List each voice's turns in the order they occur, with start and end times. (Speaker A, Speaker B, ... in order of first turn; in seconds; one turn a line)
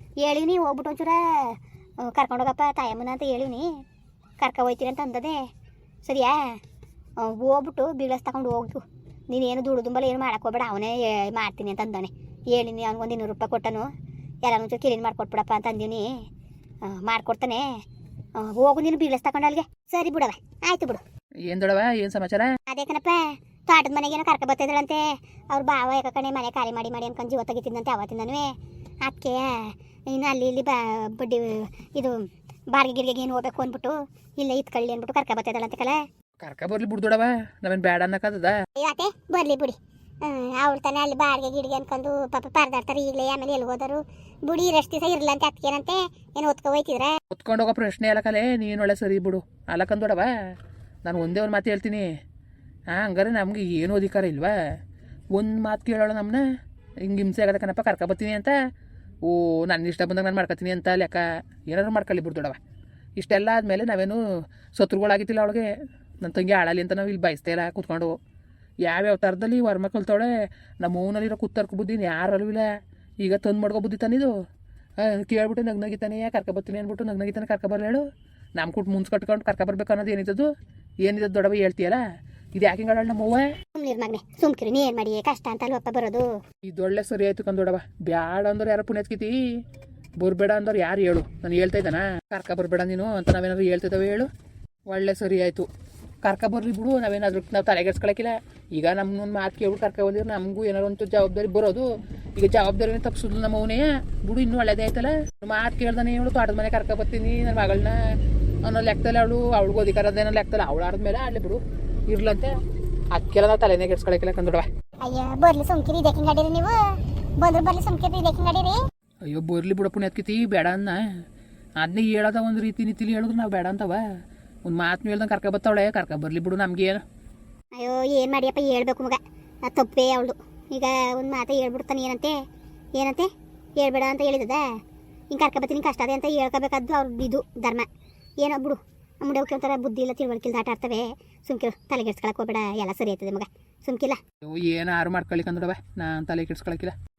Speaker A: 0.2-3.7
Speaker A: 4.4-5.4
Speaker A: 6.0-6.6
Speaker A: 7.2-13.9
Speaker A: 14.4-16.1
Speaker A: 16.8-17.7
Speaker A: 18.4-21.0
Speaker B: 21.5-22.6
Speaker A: 22.7-28.5
Speaker A: 29.0-36.0
Speaker B: 36.4-38.6
Speaker A: 38.8-47.1
Speaker B: 47.3-50.3
Speaker B: 51.0-52.1
Speaker B: 52.9-54.5
Speaker B: 55.4-56.4
Speaker B: 57.0-58.5
Speaker B: 59.2-62.6
Speaker B: 63.2-64.2
Speaker B: 64.8-68.2
Speaker B: 68.8-72.7
Speaker B: 73.2-74.3
Speaker B: 75.0-78.0
Speaker B: 78.6-80.5
Speaker B: 81.0-82.0
Speaker B: 82.5-83.5
Speaker A: 83.8-86.3
Speaker B: 86.6-89.4
Speaker B: 90.2-94.3
Speaker B: 94.9-95.7
Speaker B: 96.2-108.0
Speaker B: 108.6-112.5
Speaker B: 113.1-114.7
Speaker A: 115.0-116.8
Speaker A: 117.4-118.8
Speaker B: 119.3-121.0
Speaker B: 121.8-124.0
Speaker B: 124.7-127.0
Speaker A: 127.8-132.4
Speaker A: 133.0-133.3
Speaker A: 133.8-134.7
Speaker A: 135.3-137.9
Speaker A: 138.4-144.2
Speaker B: 144.4-146.9